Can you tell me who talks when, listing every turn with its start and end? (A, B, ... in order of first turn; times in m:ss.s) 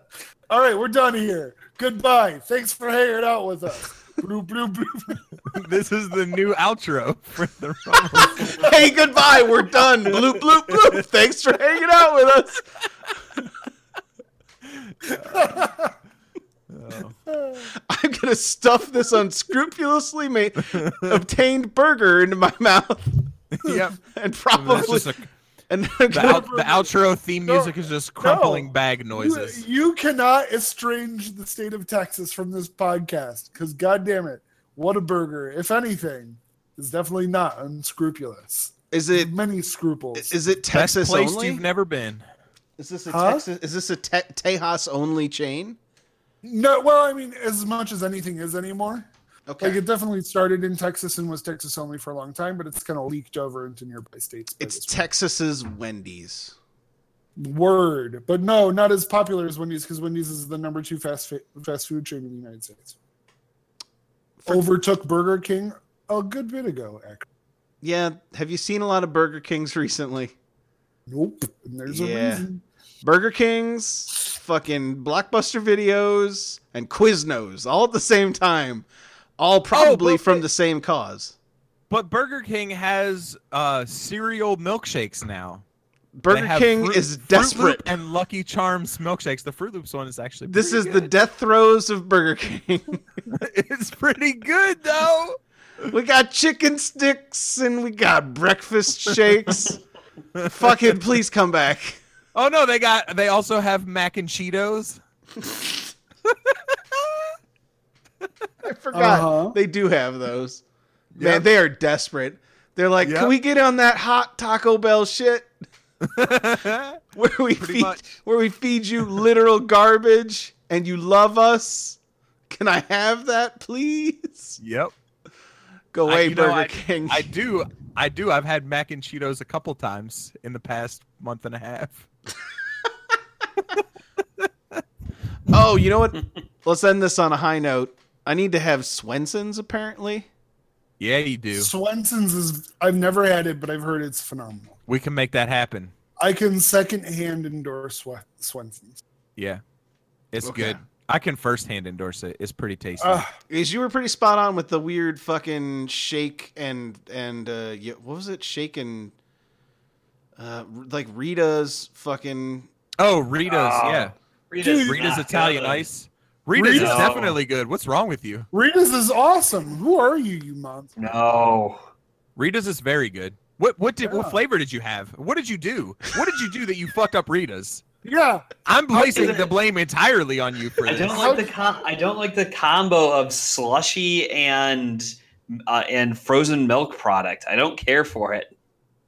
0:00.5-0:05.3 A
0:05.5-0:08.7 B
0:08.3-0:08.6 A
0:08.6-0:12.6 C
0:10.1-0:11.0 B
0:14.7-0:15.6 B
0:15.2-0:15.9 A
0:16.7-0:17.2 B
0:17.3-0:17.7 A
0:17.7-0:23.3 C
0:20.7-0:21.2 B
0:23.5-0:24.0 B
0:24.0-0:26.5 C
0:24.5-0:25.3 B
0:26.1-0:29.6 B
0:26.1-0:40.4 A
0:38.9-0:39.3 C
0:40.1-0:41.6 C
0:40.7-0:42.2 B
0:42.8-0:45.8 C
0:43.1-0:43.4 A
0:46.4-0:49.1 A
0:49.5-0:49.8 C
0:49.6-0:55.0 A
0:54.6-0:56.5 C
0:57.4-1:03.0 A
1:04.5-1:07.3 A
1:07.8-1:10.3 C
1:11.1-1:12.6 A
1:11.9-1:12.5 C
1:13.0-1:18.9 C
1:19.4-1:21.4 C
1:19.7-1:20.5 B
1:21.9-1:25.6 B
1:26.2-1:27.8 C
1:26.3-1:31.1 B
1:30.5-1:33.1 C
1:33.3-1:35.4 B
1:35.9-1:39.8 C
1:40.4-1:40.8 B
1:40.4-1:42.0 C
1:42.3-1:45.0 B
1:46.2-1:47.3 B
1:48.6-1:50.6 C
1:48.9-1:49.6 A
1:51.1-1:51.5 B
1:51.2-1:55.5 C
1:53.0-1:53.3 B
1:56.0-1:57.0 B
1:57.2-2:02.0 C
1:57.6-1:58.2 B
2:02.5-2:04.6 C
2:04.6-2:04.9 B
2:05.9-2:07.3 C
2:06.0-2:12.1 B
2:14.4-2:14.8 B
2:15.5-2:20.3 C
2:21.0-2:21.7 B
2:21.6-2:24.8 A
2:24.9-2:25.9 B
2:26.2-2:29.0 A
2:29.4-2:29.6 B
2:30.3-2:33.2 B
2:30.4-2:30.8 C
2:33.0-2:33.3 A
2:33.5-2:39.1 C
2:40.4-2:42.7 C
2:43.0-2:44.1 B
2:43.5-2:45.9 D
2:44.6-2:45.2 A
2:44.8-2:48.5 B
2:46.6-2:47.2 A
2:46.7-2:47.4 D
2:48.5-2:50.9 A
2:51.0-2:51.8 D
2:52.4-2:57.8 B
2:54.0-2:54.4 A
2:58.0-2:59.5 A
2:58.6-3:01.3 B
2:59.0-2:59.5 D
3:00.9-3:08.5 D
3:01.0-3:01.6 A